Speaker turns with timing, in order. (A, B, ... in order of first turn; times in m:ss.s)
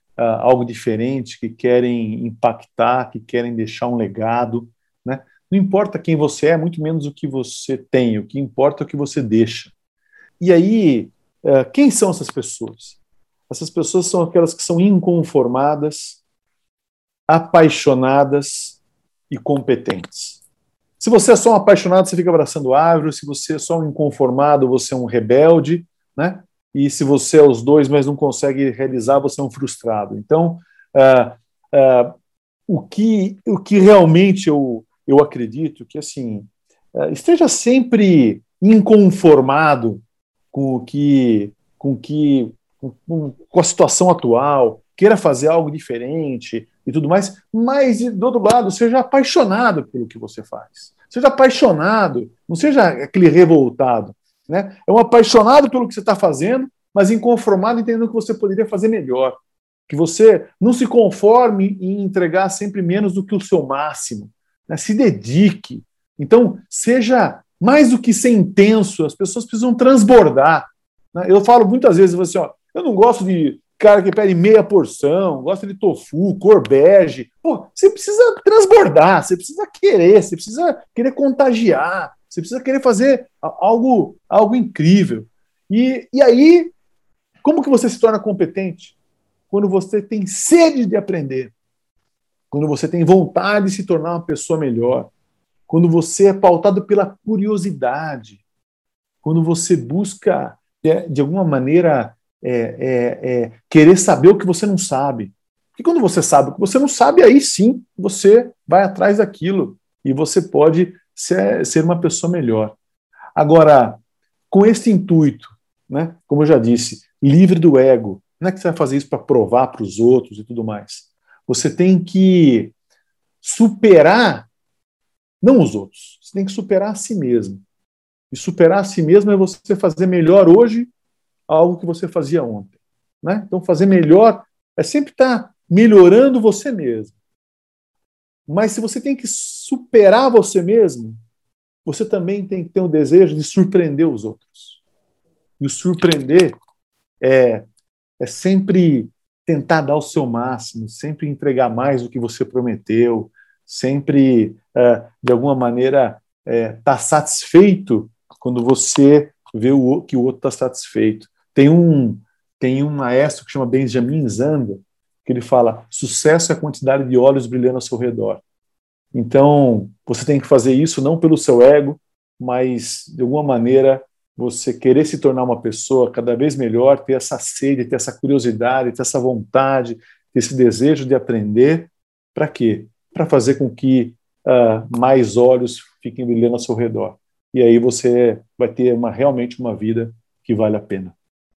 0:00.2-0:09.7 A
0:10.4-0:13.0 A
0:13.5-0:16.2 A
0:17.3-0:18.8 A
0:19.3-0:20.4 A
0:21.0-0:32.1 A
0:32.7-1:26.7 A
1:27.4-1:28.9 A
1:29.5-1:31.5 A
1:32.5-1:35.1 A
1:35.7-1:38.4 A
1:39.2-1:52.8 A
1:53.3-1:54.0 A
1:54.5-2:02.7 A
2:03.4-2:04.5 A
2:05.4-2:07.6 A
2:08.3-2:10.9 A
2:11.5-2:17.1 A
2:18.5-2:21.2 A
2:21.8-2:24.8 A
2:25.6-2:26.6 A
2:27.2-2:27.6 A
2:28.2-2:48.4 A
2:49.1-3:11.1 A